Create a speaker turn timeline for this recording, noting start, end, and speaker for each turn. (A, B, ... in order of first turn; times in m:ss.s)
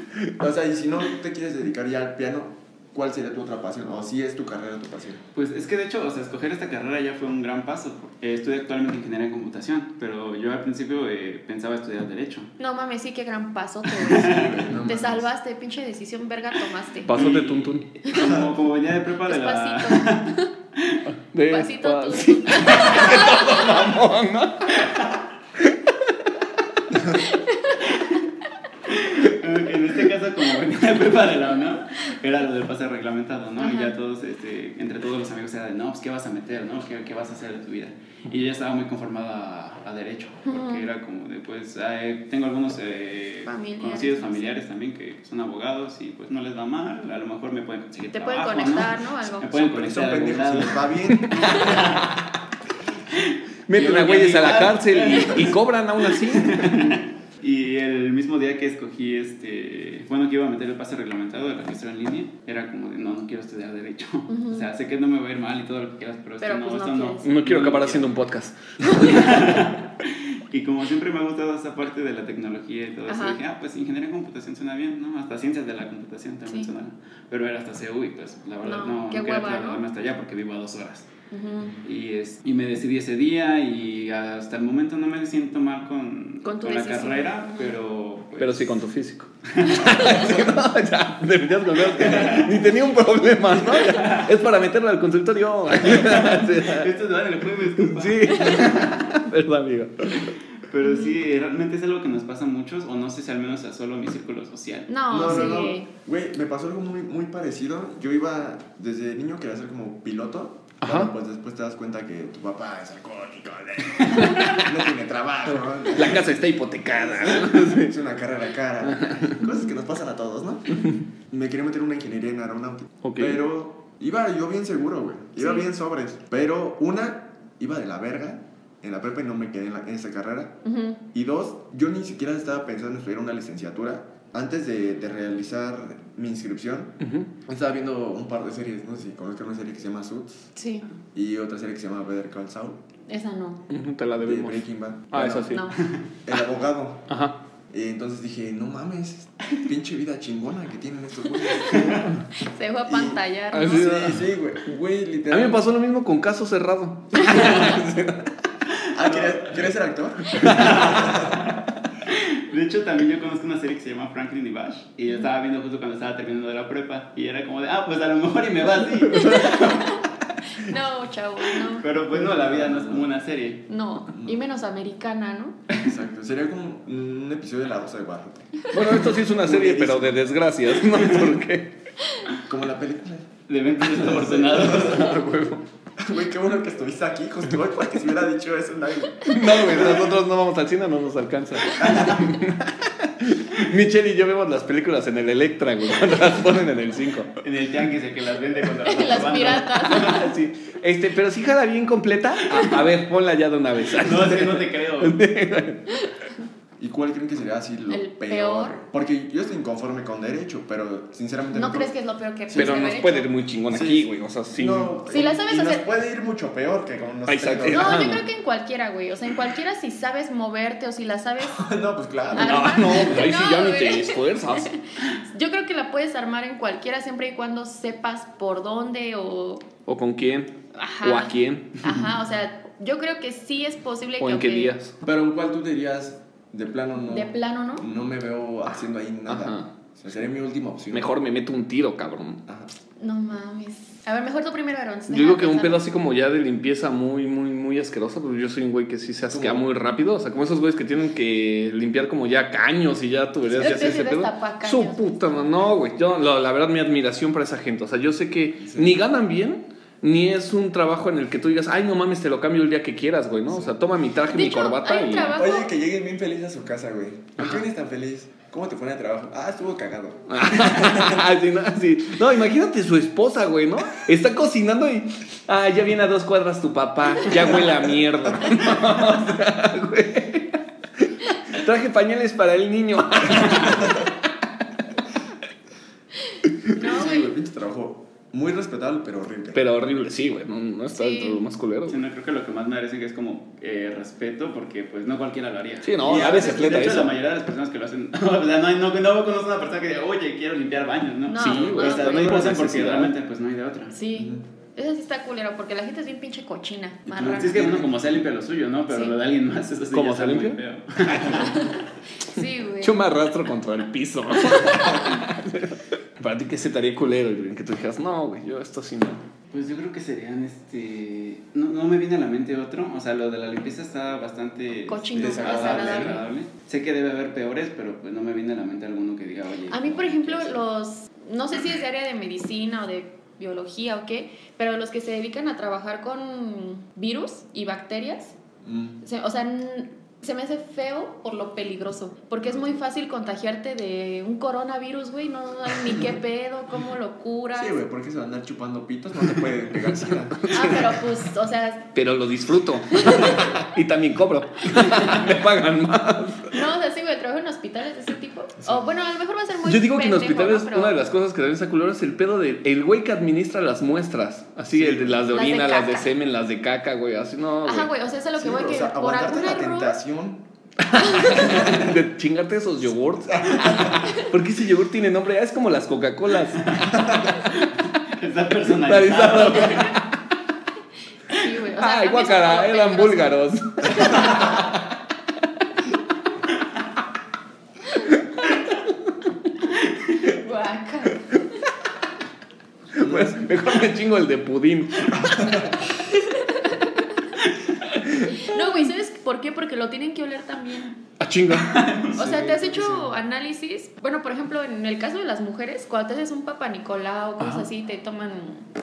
0:00.4-0:05.2 A
0:05.4-0:12.5 B
0:12.6-0:17.1 C
0:13.9-0:14.8 B
0:14.1-0:15.3 A
0:17.0-0:17.9 D
0:17.1-0:21.0 B
0:18.1-0:18.3 C
0:18.2-0:18.5 A
0:19.2-0:20.5 C
0:21.1-0:24.9 D
0:21.5-0:23.8 C
0:24.7-0:25.2 B
0:25.6-0:26.1 D
0:27.0-0:28.0 C
0:27.8-0:28.2 B
0:28.9-0:52.2 B
0:33.6-0:33.9 C
0:40.4-0:40.9 C
0:43.4-0:44.6 C
0:48.1-0:49.5 C
0:49.5-0:52.1 A
0:51.1-0:51.9 D
0:53.1-1:08.2 B
0:53.7-0:57.0 D
1:04.3-1:04.7 C
1:06.4-1:07.3 C
1:07.2-1:09.6 D
1:08.8-1:21.1 B
1:13.1-1:13.4 C
1:18.6-1:19.8 C
1:21.3-1:21.8 C
1:21.8-1:28.8 B
1:26.4-1:27.8 C
1:28.4-1:36.9 D
1:29.5-1:30.2 B
1:31.9-1:32.7 B
1:33.6-1:34.3 B
1:35.7-1:39.1 B
1:37.8-1:40.3 D
1:40.6-1:44.9 B
1:40.8-1:41.2 C
1:44.9-1:45.9 C
1:45.1-2:10.6 A
1:50.8-1:51.1 D
1:54.0-1:54.4 B
1:54.2-1:54.7 D
1:55.9-1:58.0 D
1:58.8-1:59.4 D
2:00.8-2:01.0 D
2:03.0-2:03.4 D
2:05.4-2:05.7 C
2:10.6-2:11.0 C
2:11.1-2:20.5 A
2:17.0-2:17.4 D
2:20.5-2:20.9 C
2:21.1-2:22.8 A
2:23.1-2:23.6 C
2:23.7-2:25.7 D
2:24.2-2:25.6 A
2:25.5-2:25.9 C
2:26.2-2:27.1 A
2:27.1-2:27.4 D
2:27.7-2:32.2 A
2:31.6-2:32.0 B
2:32.4-2:34.0 C
2:32.9-2:35.6 A
2:33.5-2:34.3 D
2:35.3-2:38.3 D
2:37.3-2:37.5 B
2:38.7-2:39.7 B
2:38.9-2:41.4 A
2:40.3-2:41.0 D
2:40.4-2:50.0 B
2:49.1-2:49.6 D
2:49.1-2:51.9 C
2:51.8-2:53.6 B
2:52.1-2:53.0 A
2:53.7-2:55.6 C
2:54.1-2:54.4 A
2:55.8-3:00.2 A
2:58.7-3:01.8 D
3:02.4-3:05.1 A
3:03.5-3:05.2 B
3:04.7-3:05.6 D
3:06.0-3:10.2 A
3:09.2-3:17.3 D
3:11.7-3:12.3 A
3:17.4-3:20.3 B
3:18.9-3:20.2 C
3:19.5-3:25.9 D
3:23.9-3:25.2 B
3:26.8-3:31.9 A
3:27.9-3:28.8 C
3:31.5-3:33.3 C
3:32.5-3:32.9 A
3:32.5-3:34.9 D
3:33.7-3:38.1 A
3:35.1-3:35.9 C
3:37.3-3:38.2 D
3:37.7-3:41.6 C
3:41.4-3:43.1 A
3:42.3-3:49.7 C
3:42.3-3:44.7 D
3:49.9-3:52.1 D
3:50.7-3:54.8 C
3:54.2-3:55.0 D
3:55.0-4:01.1 A
3:57.1-3:57.9 C
3:59.3-3:59.7 D
4:00.9-4:02.4 D
4:03.0-4:05.8 C
4:05.1-4:25.4 D
4:09.3-4:09.7 A
4:13.5-4:15.6 C
4:18.6-4:19.0 A
4:23.5-4:23.8 A
4:24.2-4:25.7 C
4:25.3-4:31.2 A
4:30.3-4:44.1 D
4:46.7-4:47.3 C
4:46.8-4:49.6 A
4:49.5-4:52.0 D
4:50.9-4:51.4 C
4:51.9-5:03.9 B
4:55.8-4:57.1 D
5:01.2-5:02.5 C
5:01.4-5:03.1 D
5:03.9-5:07.8 C
5:04.1-5:04.4 A
5:07.1-5:11.8 B
5:07.4-5:07.9 A
5:09.9-5:11.6 D
5:11.4-5:13.0 C
5:12.8-5:19.2 D
5:14.5-5:15.0 C
5:19.5-5:30.6 B
5:24.9-5:26.2 C
5:25.1-5:26.2 A
5:29.7-5:38.4 C
5:38.6-5:39.0 A
5:39.0-5:47.8 C
5:42.4-5:42.8 A
5:47.5-5:50.9 A
5:50.4-5:50.9 D
5:50.5-5:51.9 C
5:51.9-5:56.5 D
5:52.9-5:53.5 C
5:56.5-6:01.0 C
5:58.6-5:58.8 A
5:59.6-6:07.9 D
6:04.7-6:05.3 A
6:05.3-6:06.1 C
6:07.6-6:10.0 C
6:08.4-6:10.4 A
6:10.8-6:17.5 D
6:11.0-6:11.5 C
6:11.4-6:11.9 A
6:13.4-6:14.0 A
6:13.9-6:14.3 C
6:16.6-6:20.0 B
6:18.8-6:20.1 D
6:21.3-6:24.5 C
6:21.7-6:24.9 D
6:27.9-6:29.2 D
6:30.2-6:31.3 C
6:32.9-6:36.0 D
6:33.0-6:33.4 A
6:35.3-6:35.6 A
6:36.3-6:37.1 C
6:37.8-6:38.9 D
6:38.3-6:41.0 C
6:41.2-6:42.0 D
6:41.5-6:42.2 B
6:42.1-6:43.1 A
6:42.1-6:48.7 C
6:47.4-6:47.6 D